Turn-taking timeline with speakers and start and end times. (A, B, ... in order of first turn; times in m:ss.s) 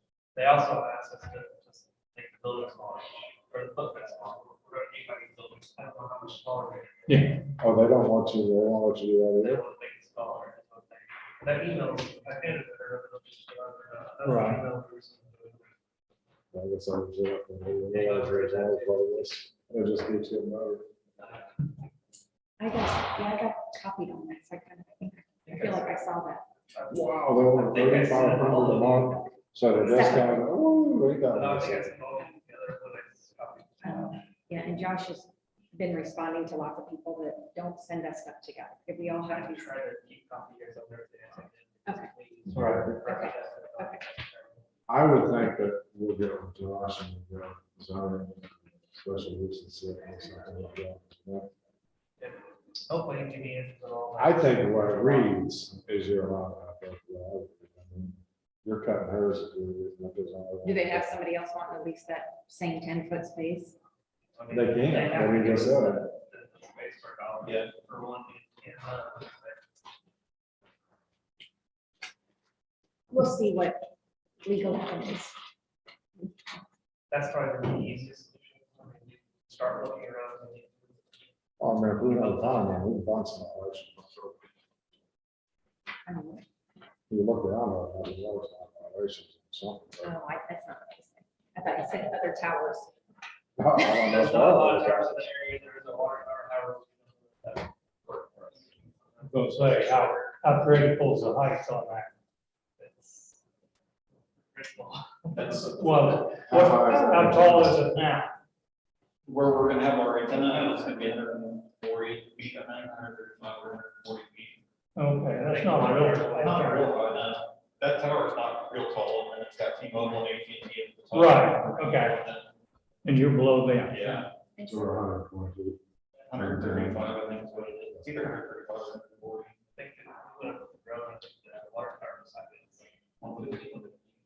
0:00.3-0:07.3 A
0:07.1-0:07.4 B
0:07.6-0:09.6 C
0:09.4-0:15.7 A
0:14.2-0:14.6 B
0:16.5-0:20.8 C
0:17.9-0:19.0 A
0:21.2-0:21.5 A
0:22.6-0:26.4 D
0:25.4-0:26.0 A
0:26.7-0:29.3 A
0:26.9-0:31.9 C
0:29.8-0:30.4 D
0:31.3-0:34.2 A
0:33.8-0:39.8 D
0:39.3-0:44.6 A
0:42.4-0:43.0 C
0:43.0-0:44.0 D
0:44.9-0:51.5 C
0:50.1-0:50.6 D
0:52.2-0:55.4 A
0:54.2-1:01.2 C
1:00.6-1:03.8 D
1:04.3-1:09.6 A
1:04.5-1:06.1 C
1:13.1-1:13.8 D
1:14.4-1:15.3 D
1:17.1-1:21.2 A
1:21.6-1:24.4 C
1:22.1-1:22.8 A
1:26.0-1:26.4 D
1:27.1-1:30.1 C
1:30.0-1:32.9 D
1:33.6-1:35.1 C
1:33.8-1:40.1 A
1:38.1-1:38.4 E
1:39.3-1:42.1 B
1:40.0-1:40.3 E
1:42.8-1:43.4 A
1:44.5-1:45.7 A
1:45.3-1:46.0 E
1:45.8-1:48.3 B
1:46.5-1:47.8 C
1:49.2-1:54.6 E
1:55.0-1:56.8 B
1:55.4-1:56.9 A
1:56.3-2:02.5 E
2:01.1-2:02.2 B
2:03.0-2:04.2 B
2:03.9-2:04.3 E
2:04.6-2:04.9 D
2:04.6-2:05.8 C
2:06.3-2:09.5 E
2:06.3-2:07.0 C
2:09.8-2:12.8 A
2:13.2-2:13.9 E